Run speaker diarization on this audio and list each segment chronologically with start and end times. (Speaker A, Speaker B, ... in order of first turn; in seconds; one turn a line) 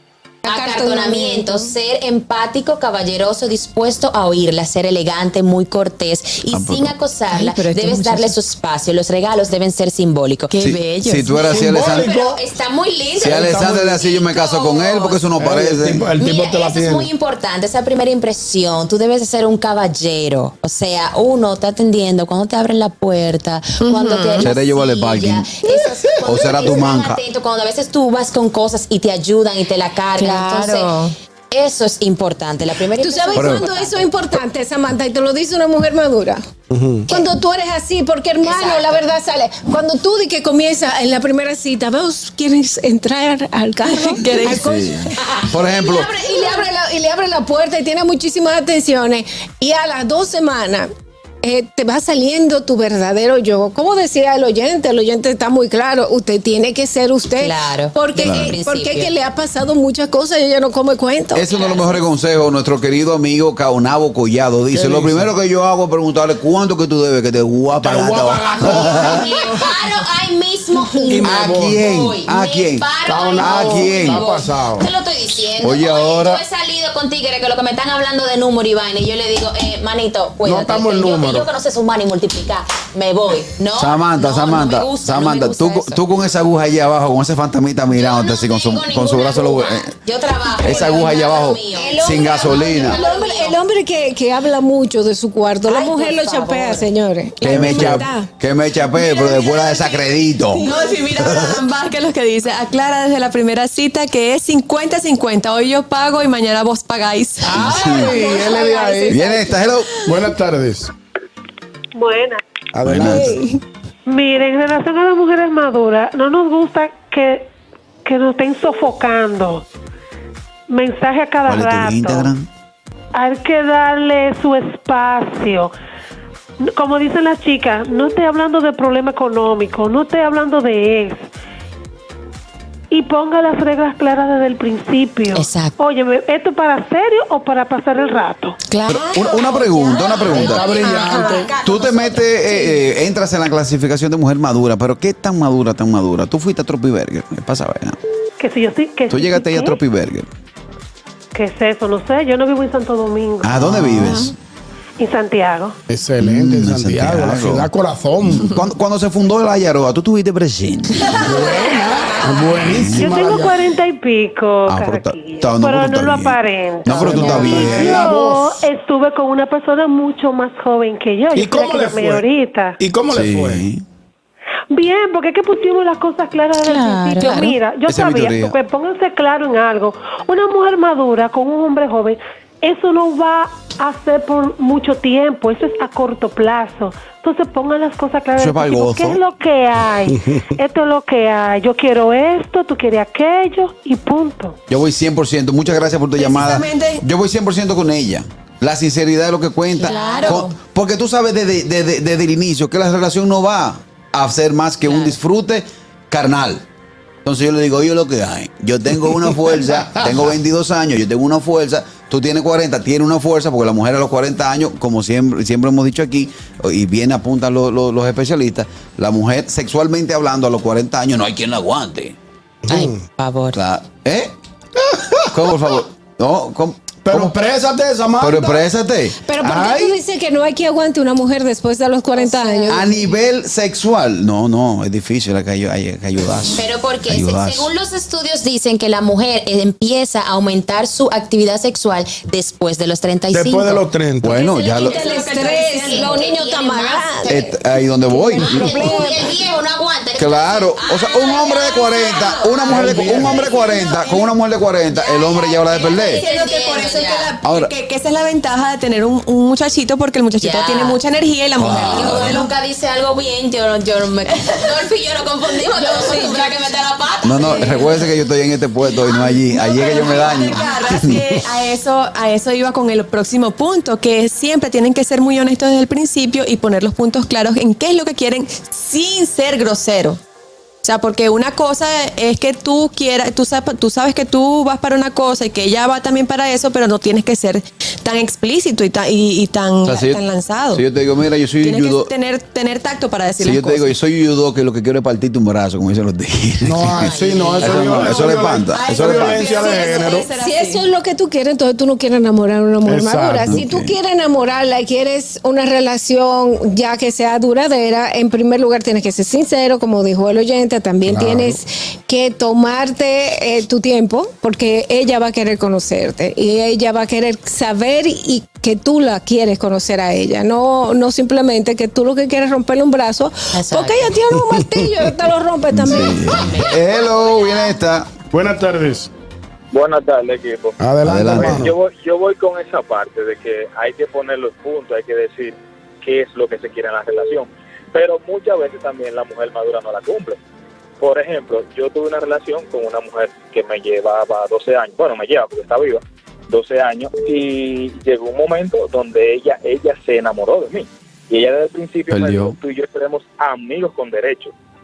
Speaker A: 0.5-1.7
Speaker B: 0.5-10.5
Speaker C: 6.5-6.9
Speaker D: 7.3-8.3
Speaker D: 10.5-11.5
Speaker C: 10.6-12.1
Speaker E: 11.5-12.4
Speaker B: 11.5-15.3
Speaker E: 13.2-14.0
Speaker C: 13.2-16.1
Speaker E: 15.4-17.1
Speaker B: 16.2-30.9
Speaker D: 23.8-24.5
Speaker C: 24.4-25.5
Speaker C: 26.2-27.2
Speaker D: 30.2-31.1
Speaker B: 31.5-34.1
Speaker A: 33.0-36.4
Speaker C: 33.3-33.6
Speaker E: 36.7-37.1
Speaker A: 37.1-50.9
Speaker B: 38.4-39.0
Speaker D: 43.9-44.6
Speaker C: 44.5-46.1
Speaker A: 51.4-61.5
Speaker B: 57.4-59.1
Speaker C: 58.2-58.6
Speaker C: 61.3-69.3
Speaker B: 61.5-61.9
Speaker E: 64.7-65.3
Speaker E: 67.8-69.9
Speaker B: 68.6-86.0
Speaker E: 70.8-71.8
Speaker C: 71.2-74.3
Speaker E: 73.0-74.9
Speaker C: 75.6-76.4
Speaker E: 80.4-81.5
Speaker C: 83.8-89.9
Speaker B: 87.9-93.6
Speaker C: 90.6-93.0
Speaker A: 91.8-98.3
Speaker B: 95.7-96.9
Speaker C: 97.4-101.6
Speaker E: 97.5-98.0
Speaker D: 99.1-99.9
Speaker D: 100.6-107.8
Speaker A: 100.6-100.9
Speaker E: 107.4-109.2
Speaker C: 107.6-108.2
Speaker A: 107.6-109.5
Speaker C: 109.1-109.9
Speaker E: 110.0-110.9
Speaker F: 112.0-112.4
Speaker E: 112.7-113.4
Speaker C: 112.8-113.4
Speaker A: 113.0-113.5
Speaker F: 114.1-117.5
Speaker F: 118.0-119.7
Speaker F: 120.7-122.3
Speaker C: 121.5-122.5
Speaker F: 123.1-125.7
Speaker F: 126.6-131.3
Speaker F: 132.9-138.6
Speaker B: 135.3-135.7
Speaker D: 138.8-142.6
Speaker C: 138.9-140.9
Speaker E: 140.3-141.5
Speaker A: 140.8-141.5
Speaker C: 141.6-148.0
Speaker F: 148.4-149.8
Speaker C: 149.1-150.3
Speaker F: 151.3-153.6
Speaker C: 153.4-154.3
Speaker E: 153.6-154.2
Speaker F: 155.0-155.8
Speaker E: 155.9-158.6
Speaker C: 156.2-157.7
Speaker C: 158.4-161.5
Speaker E: 161.2-163.6
Speaker C: 162.6-163.1
Speaker F: 162.9-172.8
Speaker C: 164.7-168.1
Speaker E: 166.9-168.6
Speaker B: 167.3-167.7
Speaker E: 171.3-172.3
Speaker E: 172.8-173.7
Speaker C: 173.1-173.8
Speaker F: 174.7-194.6
Speaker B: 176.6-177.6
Speaker C: 177.9-178.6
Speaker C: 188.4-189.2
Speaker E: 190.1-190.4
Speaker C: 194.7-206.6
Speaker D: 196.2-197.0
Speaker B: 199.8-200.5
Speaker D: 199.8-200.5
Speaker B: 204.8-205.2
Speaker C: 207.2-222.2
Speaker E: 222.7-223.1
Speaker B: 222.7-223.6
Speaker C: 223.5-224.3
Speaker E: 224.8-225.3
Speaker C: 225.3-227.4
Speaker E: 227.1-228.6
Speaker C: 228.2-230.0
Speaker A: 229.2-233.1
Speaker B: 232.2-232.9
Speaker C: 232.7-237.7
Speaker B: 236.5-247.4
Speaker E: 243.3-244.4
Speaker C: 244.2-245.0
Speaker A: 244.7-247.5
Speaker D: 244.8-246.2
Speaker C: 247.3-249.0
Speaker A: 248.1-249.3
Speaker B: 248.4-253.8
Speaker C: 250.2-256.2
Speaker E: 252.7-253.4
Speaker D: 253.0-254.3
Speaker B: 254.9-257.4
Speaker D: 256.0-262.5
Speaker C: 257.4-257.7
Speaker B: 260.4-261.0
Speaker C: 261.6-262.4
Speaker B: 261.9-268.1
Speaker D: 265.7-266.5
Speaker C: 267.2-271.2
Speaker D: 269.5-280.2
Speaker D: 280.8-290.8
Speaker C: 289.9-292.1
Speaker D: 291.6-293.9
Speaker C: 293.4-299.5
Speaker E: 296.6-300.3
Speaker B: 297.0-298.3
Speaker D: 298.7-300.8
Speaker A: 299.6-326.4
Speaker E: 302.9-303.7
Speaker C: 303.5-304.0
Speaker E: 311.1-311.6
Speaker B: 323.5-324.1
Speaker E: 324.5-325.1
Speaker C: 325.7-328.1
Speaker B: 325.9-327.8
Speaker E: 328.3-329.1
Speaker G: 329.7-330.8
Speaker E: 330.8-331.7
Speaker C: 331.0-331.7
Speaker G: 331.4-340.4
Speaker G: 341.0-354.5
Speaker C: 352.1-352.6